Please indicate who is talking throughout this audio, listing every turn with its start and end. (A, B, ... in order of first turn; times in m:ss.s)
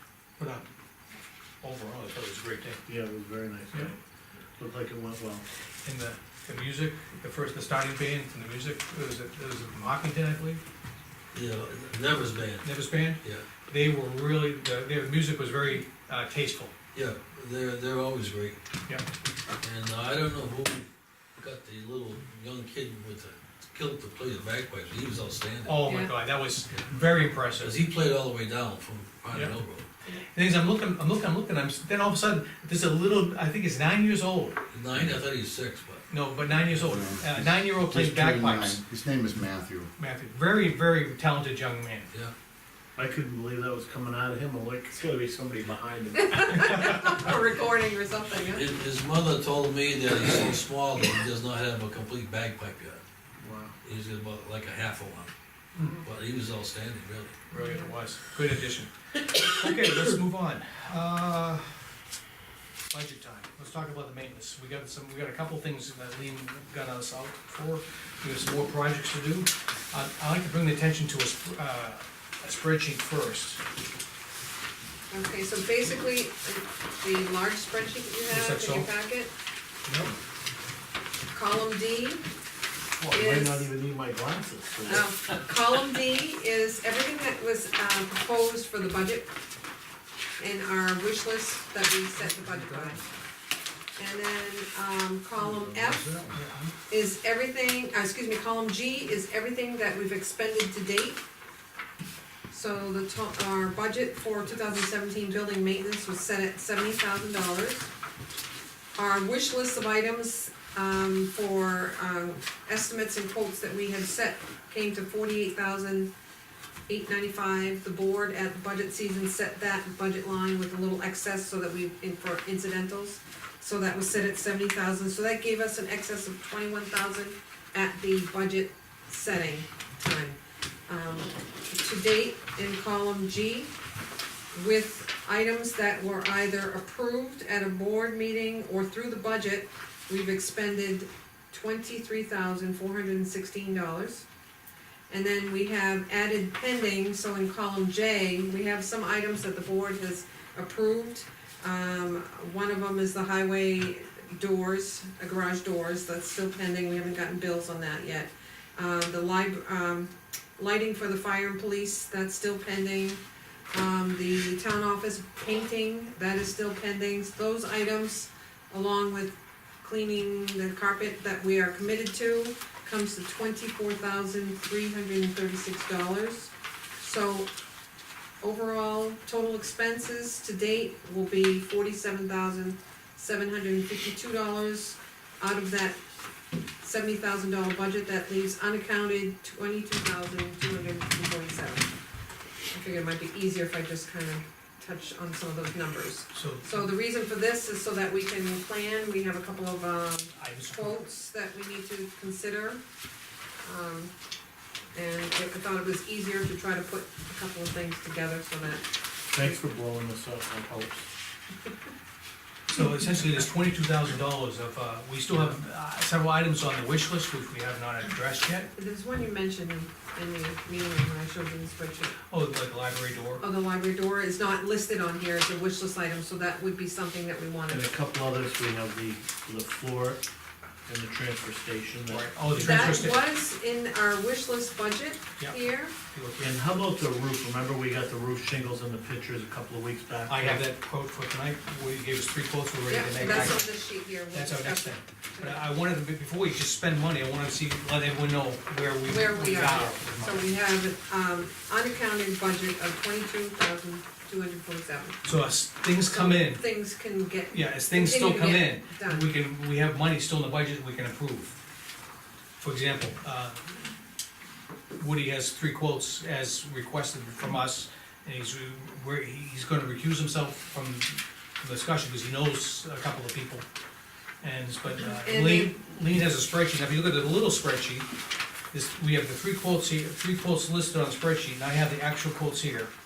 0:00.4-0:00.7 A
0:01.6-0:02.8 A
0:02.9-0:03.9 B
0:04.6-0:05.4 B
0:05.8-0:10.6 A
0:11.3-0:13.5 C
0:12.6-0:16.7 A
0:16.9-0:18.6 C
0:19.6-0:20.9 C
0:21.4-0:25.8 C
0:25.6-0:27.8 A
0:25.8-0:26.1 D
0:27.6-0:29.8 C
0:29.3-0:29.6 A
0:30.3-0:34.6 A
0:34.7-0:36.0 C
0:36.1-0:38.8 A
0:36.6-0:39.9 E
0:40.0-0:42.1 A
0:43.0-0:46.5 B
0:46.2-0:48.6 D
0:48.3-0:53.0 C
0:53.4-0:53.8 B
0:53.8-0:55.3 C
0:56.0-0:57.3 C
0:57.5-0:57.8 B
0:57.5-0:57.9 D
0:57.6-1:01.8 A
1:02.9-1:13.6 A
1:15.1-1:19.3 D
1:18.3-1:18.9 A
1:19.9-1:20.1 A
1:21.3-1:22.2 D
1:23.0-1:25.1 B
1:23.1-1:23.7 D
1:24.9-1:29.3 D
1:30.4-1:33.0 D
1:32.5-1:33.0 C
1:34.0-1:36.1 D
1:35.4-1:36.6 C
1:36.3-1:36.7 A
1:36.9-1:41.2 D
1:42.5-1:47.9 D
1:48.9-1:56.1 D
1:56.9-2:13.7 D
2:14.5-2:24.2 D
2:25.1-2:57.5 D
2:58.4-3:06.0 D
3:06.8-3:11.9 D
3:12.7-3:22.8 D
3:16.3-3:16.9 A
3:20.3-3:21.0 A
3:23.6-3:24.1 D
3:24.9-3:28.8 D
3:29.3-3:31.1 B
3:32.7-3:38.7 A
3:38.8-3:42.2 D
3:42.3-3:43.4 A
3:43.4-3:47.9 D
3:47.7-3:50.2 B
3:50.8-3:53.0 B
3:52.1-3:53.2 A
3:52.6-3:55.9 D
3:55.4-3:56.6 A
3:56.4-4:00.6 B
4:00.3-4:03.7 A
4:02.9-4:05.7 D
4:04.3-4:10.5 A
4:09.0-4:15.2 D
4:15.2-4:16.7 A
4:16.0-4:19.3 D
4:17.5-4:21.6 A
4:22.6-4:23.8 A
4:25.0-4:33.6 A
4:34.4-4:38.1 A
4:35.0-4:35.8 D
4:38.7-4:42.9 A